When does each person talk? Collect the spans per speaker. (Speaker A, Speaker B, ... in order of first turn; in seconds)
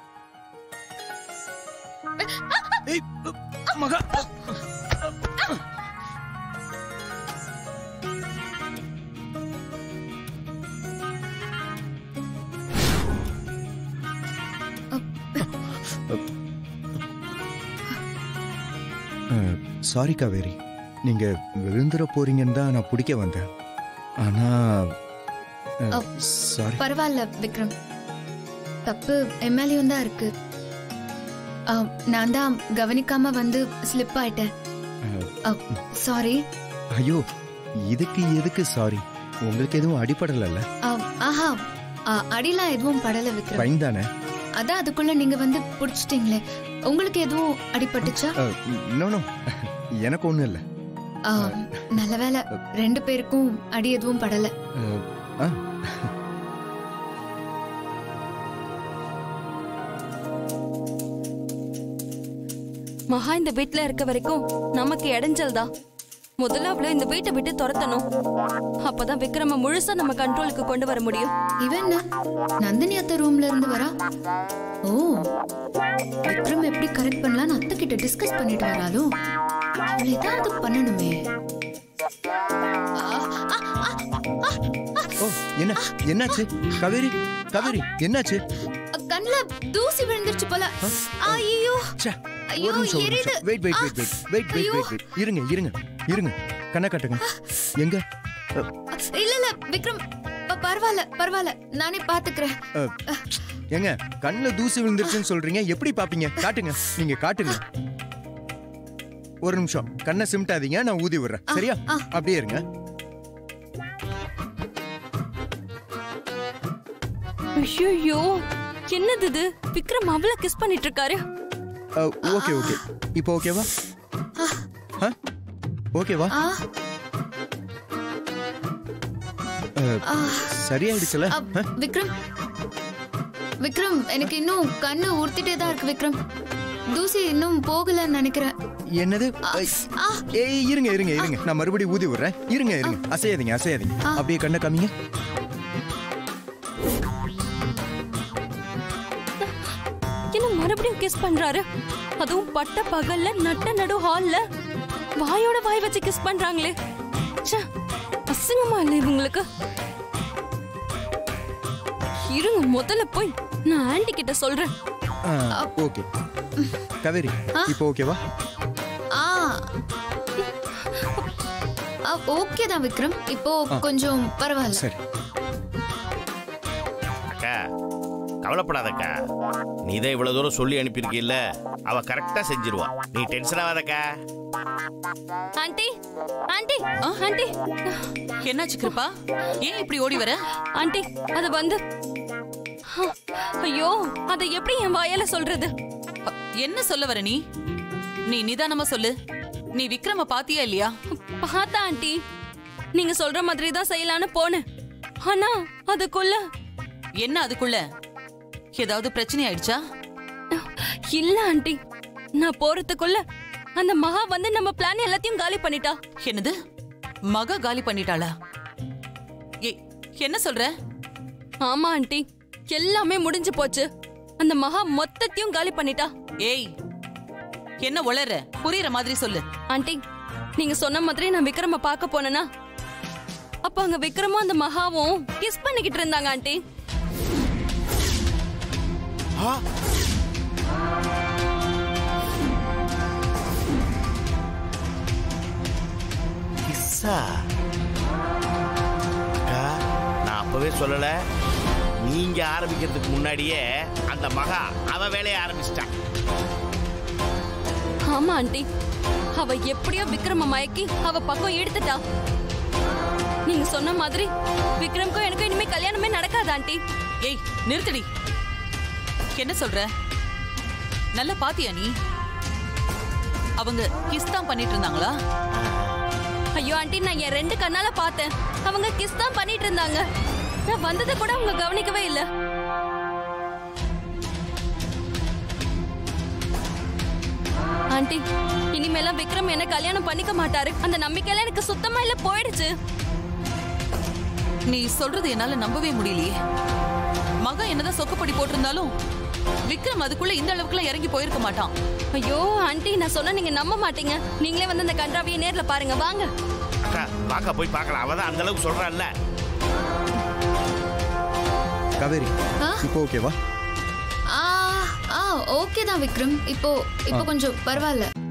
Speaker A: 2.9-4.5, 19.3-23.4, 24.2-24.9, 25.8-26.8, 37.9-40.6, 43.5-44.1, 48.0-50.6, 54.8-56.1, 85.2-88.4, 90.8-91.4, 92.0-97.2, 103.7-107.6, 109.4-112.6, 122.0-123.7, 125.9-126.3, 129.8-131.6, 139.0-139.7, 140.3-144.9, 165.3-166.0, 167.0-168.2, 174.7-175.0, 312.0-313.3
Speaker B: 14.9-15.5, 26.8-27.7, 28.8-30.3, 31.7-34.5, 35.5-36.4, 40.9-41.5, 42.1-43.7, 44.6-48.3, 51.2-54.5, 71.6-72.0, 72.6-73.9, 74.9-75.2, 76.3-79.1, 80.0-81.2, 83.0-85.1, 85.9-86.4, 88.9-91.9, 92.5-95.0, 97.3-97.6, 98.9-102.6, 103.1-103.4, 111.5-112.0, 122.3-122.8, 126.3-126.6, 130.1-130.5, 131.3-132.1, 133.6-136.2, 136.9-138.5, 139.4-140.2, 169.1-169.5, 172.1-174.8, 314.3-318.1
Speaker C: 63.1-65.7, 66.4-68.0, 68.8-71.3, 117.5-118.3, 118.9-121.2, 150.3-151.6, 152.2-154.4, 155.2-156.7, 158.3-159.4, 162.2-164.7, 170.9-171.2, 185.6-185.9, 186.5-188.1, 190.8-191.8, 192.9-195.7, 201.3-202.2, 202.9-204.6, 205.2-206.4, 210.5-211.8, 212.4-213.2, 213.8-215.9, 221.6-223.9, 224.4-226.1, 229.7-230.0, 230.6-232.4, 233.6-236.6, 258.1-258.6, 259.4-262.0, 263.5-264.3, 264.8-266.8, 276.6-280.0, 280.7-282.2, 287.9-288.2, 288.7-292.7, 302.1-306.3
Speaker D: 177.3-177.6, 178.4-179.2, 179.8-184.0, 246.7-247.4, 249.4-249.7, 250.2-251.1, 252.0-255.9, 306.8-309.1
Speaker E: 188.4-190.4, 196.2-197.4, 198.3-199.1, 199.8-200.9, 207.2-207.8, 208.8-209.8, 216.2-216.5, 217.3-218.3, 219.6-220.7, 226.4-226.7, 227.8-229.4, 267.2-268.1, 269.4-269.9, 271.2-271.9, 273.6-275.1, 294.7-296.3, 297.4-298.9, 299.7-301.7